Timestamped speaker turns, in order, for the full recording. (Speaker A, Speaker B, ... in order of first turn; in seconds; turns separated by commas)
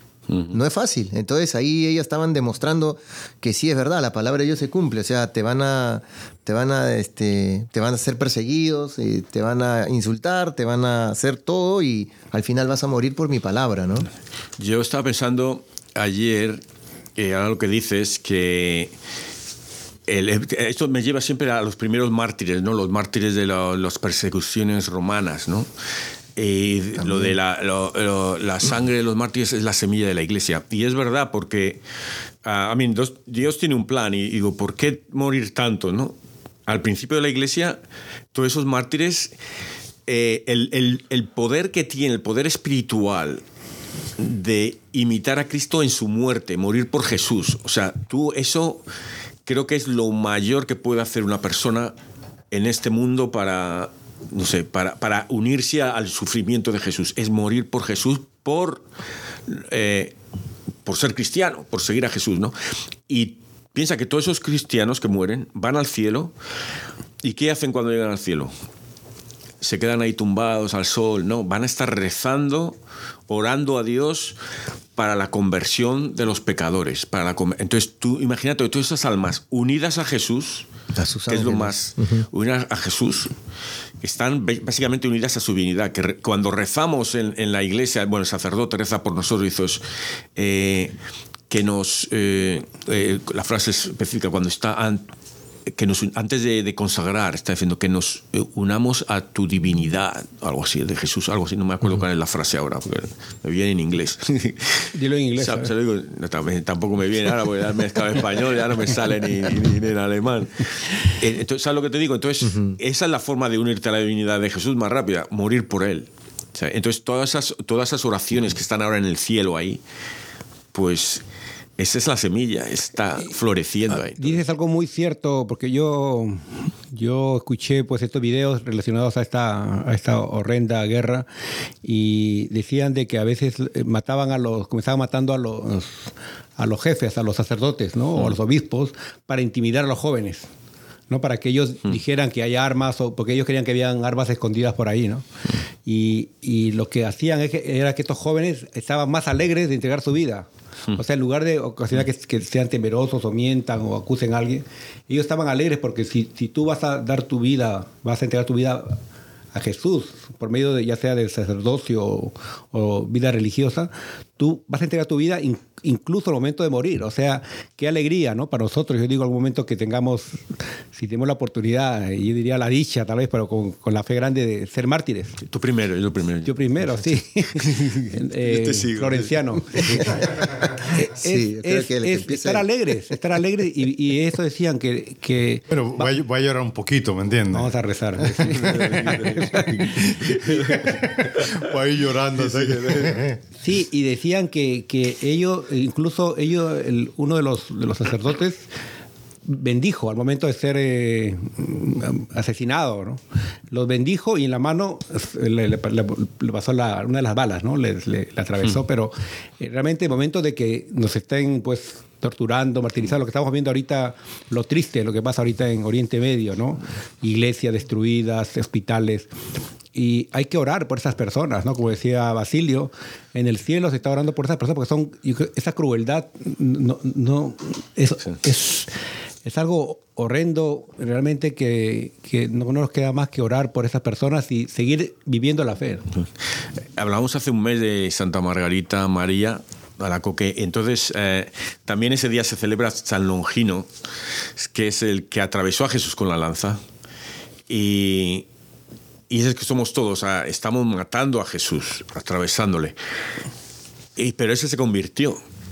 Speaker A: 0.3-0.6, Speaker B: 0.5-14.1, Speaker A: 14.6-16.6, Speaker A: 17.1-18.9, Speaker A: 20.1-25.7, Speaker A: 26.4-31.8, Speaker B: 27.0-27.4, Speaker A: 32.4-36.1, Speaker A: 36.7-37.8, Speaker A: 38.3-39.3, Speaker A: 40.1-43.4, Speaker A: 44.2-48.8, Speaker A: 49.5-51.9, Speaker A: 52.5-58.8, Speaker A: 59.5-60.1, Speaker A: 60.9-62.5, Speaker A: 63.1-66.3, Speaker A: 67.2-68.5, Speaker A: 69.6-72.8, Speaker A: 73.3-74.4, Speaker A: 75.0-80.7, Speaker B: 80.9-82.2, Speaker A: 81.3-83.3, Speaker A: 84.0-89.8, Speaker A: 90.3-91.0, Speaker A: 91.5-95.0, Speaker A: 95.7-119.8, Speaker C: 104.9-105.7, Speaker B: 112.4-112.8, Speaker A: 120.7-121.2, Speaker A: 121.8-124.4, Speaker C: 123.9-131.2, Speaker C: 131.8-140.5, Speaker C: 141.1-145.2, Speaker C: 145.8-159.0, Speaker C: 159.5-170.4, Speaker C: 170.9-175.4, Speaker A: 175.5-176.5, Speaker C: 176.4-186.2, Speaker A: 177.5-180.0, Speaker B: 180.2-183.1, Speaker D: 185.7-187.7, Speaker C: 187.5-190.9, Speaker D: 188.4-193.4, Speaker A: 188.5-189.7, Speaker A: 190.2-191.6, Speaker A: 192.3-193.2, Speaker C: 193.6-198.7, Speaker C: 199.4-203.2, Speaker C: 203.7-219.3, Speaker C: 219.9-228.9, Speaker C: 229.4-236.1, Speaker A: 236.9-243.9, Speaker A: 244.6-246.8, Speaker A: 247.7-248.4, Speaker A: 249.3-252.9, Speaker A: 254.2-255.4